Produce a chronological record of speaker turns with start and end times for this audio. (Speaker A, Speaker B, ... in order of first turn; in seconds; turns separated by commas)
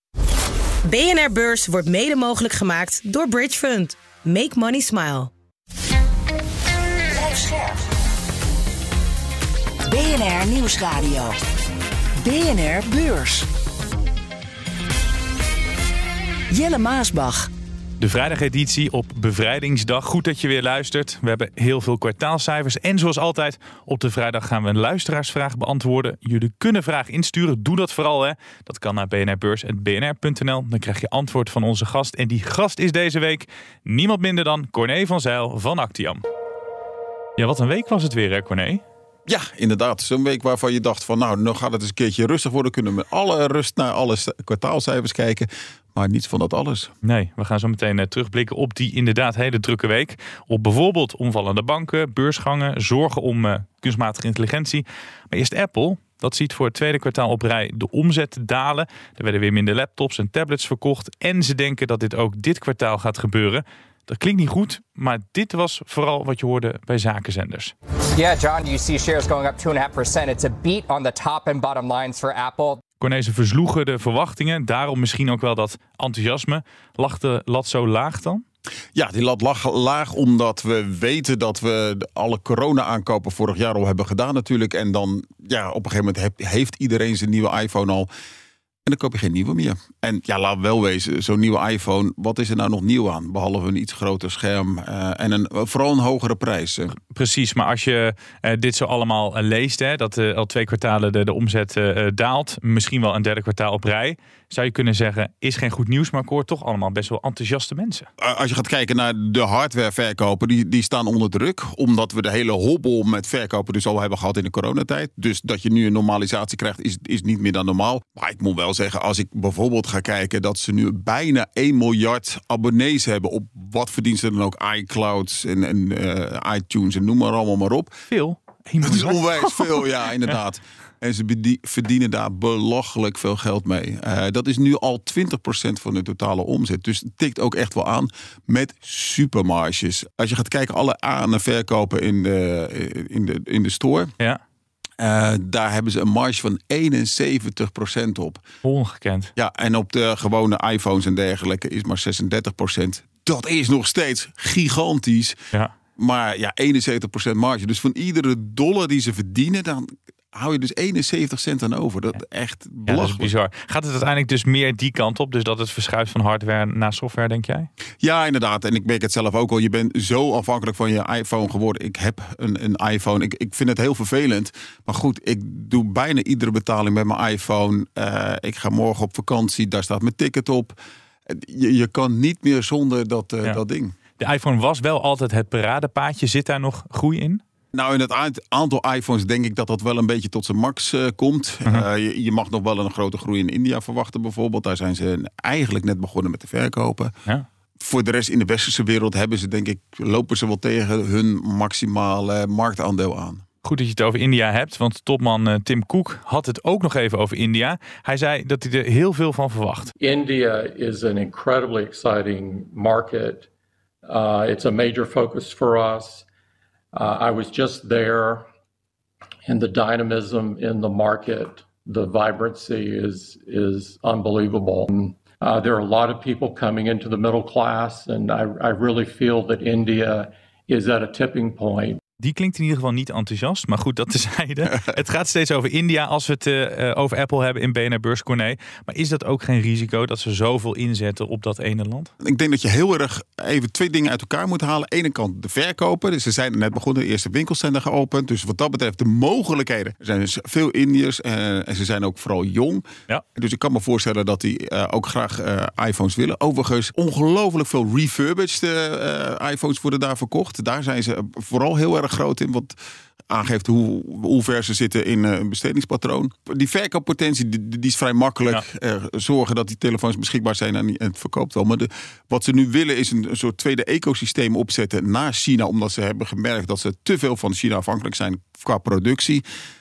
Speaker A: 0.8-5.3, Speaker B: 7.2-7.8, Speaker B: 9.8-11.3, Speaker B: 12.2-13.5, Speaker B: 16.5-17.5, Speaker C: 18.0-36.2, Speaker C: 37.4-38.8, Speaker D: 39.3-46.9, Speaker C: 47.0-67.7, Speaker E: 68.2-72.8, Speaker C: 73.0-78.4, Speaker D: 78.9-88.1, Speaker D: 88.8-97.0, Speaker C: 97.1-108.1, Speaker D: 108.2-127.9, Speaker C: 128.1-129.7, Speaker D: 128.8-144.1, Speaker D: 145.0-148.4, Speaker C: 148.6-149.3, Speaker D: 149.3-155.4, Speaker D: 155.9-163.3, Speaker C: 162.8-167.7, Speaker D: 168.0-183.9, Speaker C: 184.2-187.4, Speaker D: 187.7-197.1, Speaker D: 197.8-203.4, Speaker C: 203.6-209.9, Speaker F: 210.0-213.5, Speaker F: 214.0-216.2, Speaker F: 216.9-218.4, Speaker F: 219.4-232.0, Speaker C: 232.2-242.1, Speaker D: 242.2-262.8, Speaker D: 263.3-279.4